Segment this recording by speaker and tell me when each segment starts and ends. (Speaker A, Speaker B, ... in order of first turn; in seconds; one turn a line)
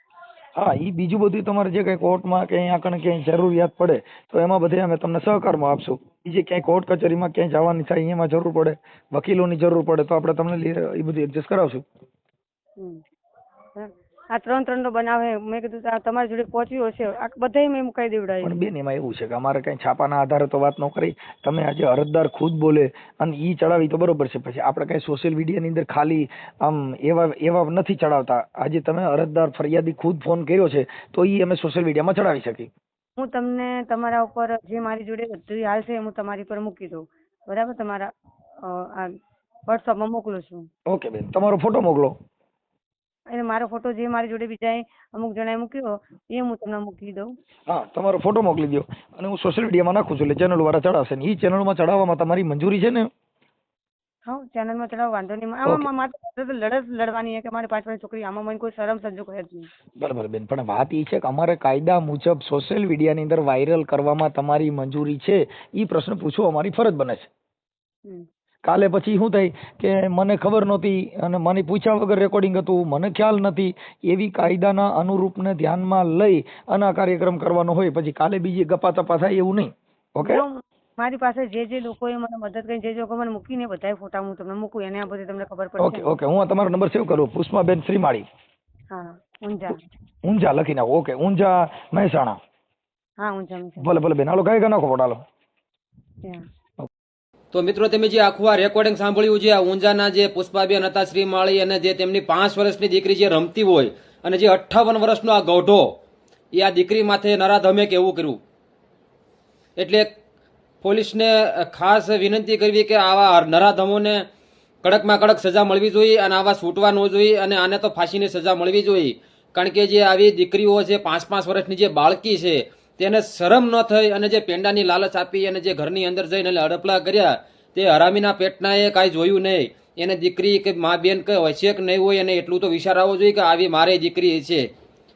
Speaker A: 0.6-11.8
Speaker B: 12.8-13.0
Speaker B: 13.8-18.5
Speaker A: 18.4-32.7
Speaker B: 33.2-38.1
Speaker B: 38.6-39.1
Speaker B: 39.7-40.7
Speaker A: 40.9-42.1
Speaker B: 43.3-47.3
Speaker A: 47.7-53.1
Speaker B: 54.3-59.7
Speaker A: 60.0-67.3
Speaker A: 68.7-80.5
Speaker B: 80.2-86.1
Speaker A: 85.8-88.2
Speaker B: 88.9-89.8
Speaker A: 90.2-92.4
Speaker B: 93.2-93.9
Speaker A: 93.8-95.2
Speaker C: 97.5-106.0
Speaker C: 106.5-108.4
Speaker C: 109.8-110.1
Speaker C: 110.8-114.3
Speaker C: 114.8-134.7